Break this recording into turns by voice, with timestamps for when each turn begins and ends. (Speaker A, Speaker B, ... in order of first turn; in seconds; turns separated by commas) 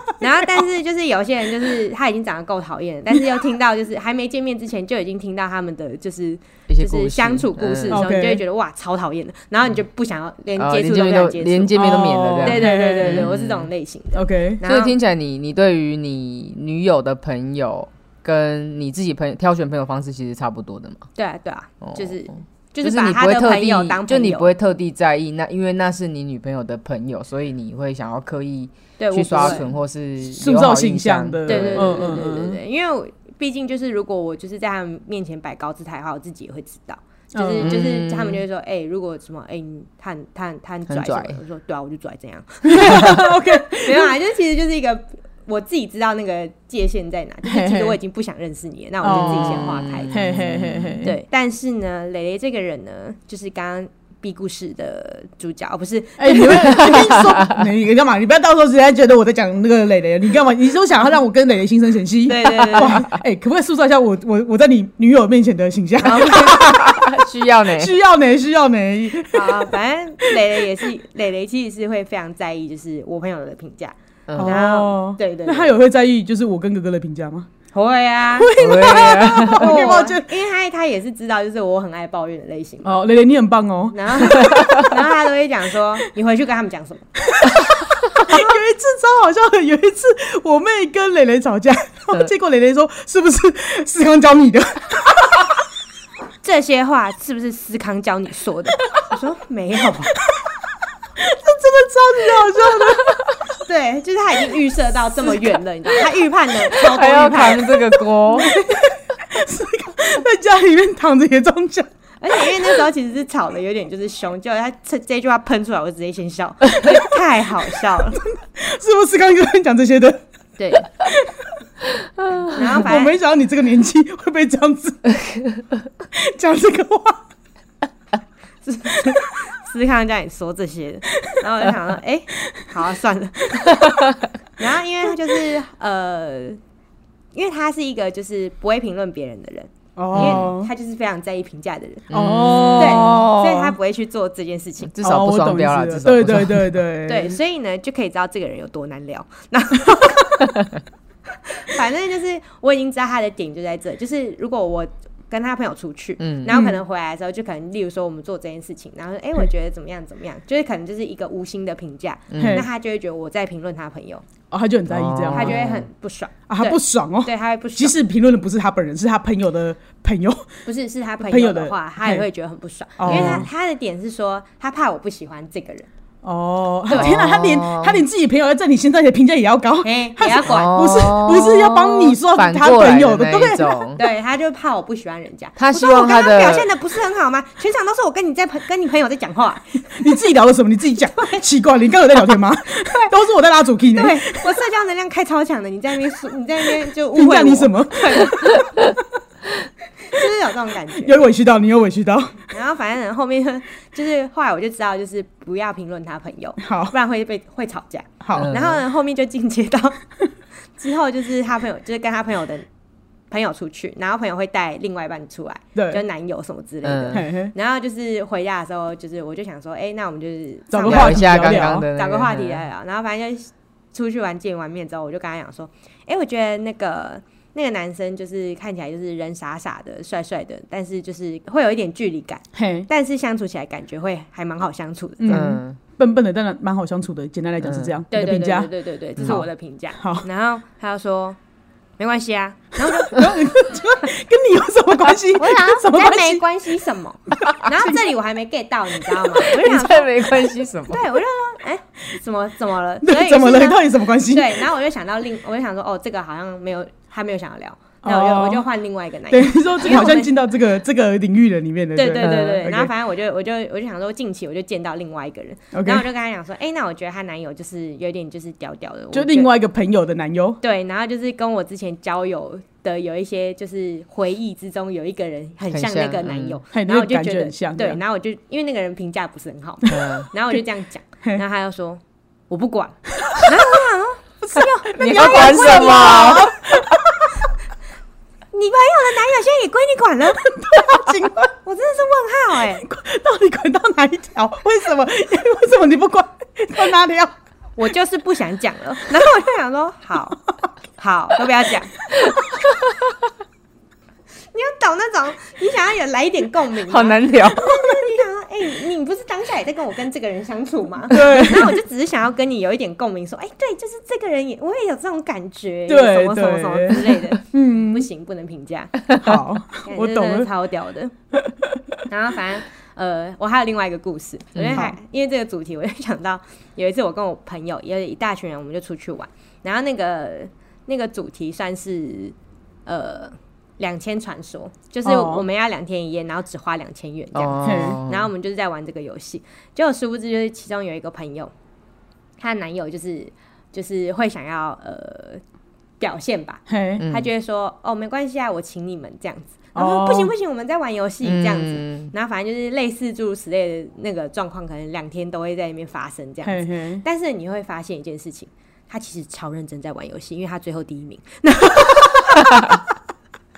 Speaker A: 0.2-11.9, Speaker B: 6.7-8.0, Speaker C: 7.9-8.4, Speaker B: 10.6-13.7, Speaker C: 11.7-13.3, Speaker A: 12.4-14.9, Speaker C: 14.1-14.6, Speaker B: 14.6-21.1, Speaker A: 21.2-24.5, Speaker B: 21.8-22.1, Speaker B: 22.8-32.3, Speaker A: 29.0-29.7, Speaker C: 29.4-29.6, Speaker C: 30.3-32.6, Speaker A: 31.5-50.1, Speaker C: 37.3-37.7, Speaker B: 37.6-38.4, Speaker B: 40.9-41.4, Speaker C: 42.6-44.1, Speaker C: 47.5-48.0, Speaker C: 49.0-51.1, Speaker B: 49.0-51.1, Speaker A: 51.0-57.0, Speaker C: 56.2-70.3, Speaker B: 56.6-57.7, Speaker A: 62.3-63.0, Speaker A: 66.0-66.6, Speaker B: 66.3-67.9, Speaker A: 69.3-75.7, Speaker B: 74.3-74.6, Speaker C: 74.4-77.5, Speaker A: 77.7-82.9, Speaker C: 78.4-80.3, Speaker B: 78.6-79.9, Speaker C: 82.8-84.8, Speaker A: 83.9-87.1, Speaker B: 84.4-84.8, Speaker C: 87.3-95.4, Speaker A: 88.3-88.6, Speaker A: 96.4-100.2, Speaker C: 101.2-103.2, Speaker A: 103.6-107.9, Speaker B: 106.7-108.6, Speaker C: 108.3-112.7, Speaker A: 112.2-118.2, Speaker C: 118.2-120.2, Speaker A: 120.6-120.9, Speaker C: 121.0-121.3, Speaker B: 122.2-122.5, Speaker A: 122.4-123.2, Speaker C: 122.5-125.1, Speaker B: 125.3-125.6, Speaker C: 126.1-127.2, Speaker A: 128.6-136.6, Speaker A: 137.3-142.1, Speaker C: 140.0-140.7, Speaker B: 140.1-140.5, Speaker B: 142.1-143.6, Speaker C: 142.1-143.4, Speaker A: 142.8-144.9, Speaker B: 144.9-146.8, Speaker C: 145.0-147.4, Speaker A: 147.1-150.7, Speaker A: 151.5-164.2, Speaker B: 156.2-156.6, Speaker C: 156.5-156.8, Speaker B: 162.3-162.7, Speaker C: 162.4-162.7, Speaker C: 164.5-165.6, Speaker B: 164.9-165.9, Speaker A: 165.3-168.0, Speaker C: 166.5-170.5, Speaker A: 170.7-175.9, Speaker C: 171.3-172.2, Speaker C: 173.0-173.5, Speaker B: 173.1-173.5, Speaker C: 176.2-183.8, Speaker A: 176.9-177.2, Speaker B: 176.9-178.1, Speaker A: 179.8-180.8, Speaker B: 180.4-184.0, Speaker A: 184.0-189.9, Speaker B: 185.6-186.7, Speaker C: 190.0-194.5, Speaker A: 193.9-198.6, Speaker C: 197.1-198.8, Speaker A: 200.0-201.2, Speaker C: 201.0-202.4, Speaker A: 202.5-210.0, Speaker C: 206.6-206.9, Speaker C: 208.2-208.5, Speaker B: 208.3-208.8, Speaker A: 210.8-212.7, Speaker A: 213.3-235.4, Speaker C: 215.8-216.0, Speaker B: 216.8-217.2, Speaker C: 217.1-217.5, Speaker C: 220.7-221.9, Speaker B: 220.9-222.7, Speaker C: 232.6-232.9, Speaker C: 235.2-238.7, Speaker B: 235.3-235.8, Speaker B: 237.6-237.9, Speaker A: 238.1-241.4, Speaker B: 239.2-239.5, Speaker C: 240.0-240.3, Speaker A: 242.0-243.3, Speaker C: 242.8-246.4, Speaker A: 245.3-250.3, Speaker B: 249.4-251.1, Speaker A: 250.9-260.3, Speaker C: 253.0-254.7, Speaker C: 258.0-258.7, Speaker C: 259.3-262.9, Speaker A: 262.0-269.5, Speaker C: 265.7-266.1, Speaker C: 269.1-270.6, Speaker A: 270.6-286.6, Speaker B: 275.7-276.6, Speaker C: 276.7-278.0, Speaker B: 279.9-280.3, Speaker C: 284.4-287.3, Speaker B: 285.0-286.6, Speaker A: 288.5-290.8, Speaker C: 290.5-291.5, Speaker A: 291.6-292.9, Speaker C: 292.8-297.3, Speaker A: 297.8-300.4, Speaker A: 301.0-301.9, Speaker A: 304.5-319.0, Speaker B: 306.9-307.7, Speaker C: 311.1-311.8, Speaker C: 315.9-318.1, Speaker C: 319.1-320.5, Speaker A: 319.9-321.1, Speaker A: 322.1-332.4, Speaker B: 324.6-324.9, Speaker A: 332.9-341.5, Speaker C: 335.1-335.4, Speaker B: 337.4-338.3, Speaker C: 337.6-338.0, Speaker A: 342.4-345.4, Speaker A: 346.0-362.5, Speaker C: 346.7-347.0, Speaker B: 347.0-347.3, Speaker C: 349.8-350.3, Speaker B: 351.2-352.1, Speaker C: 356.4-357.0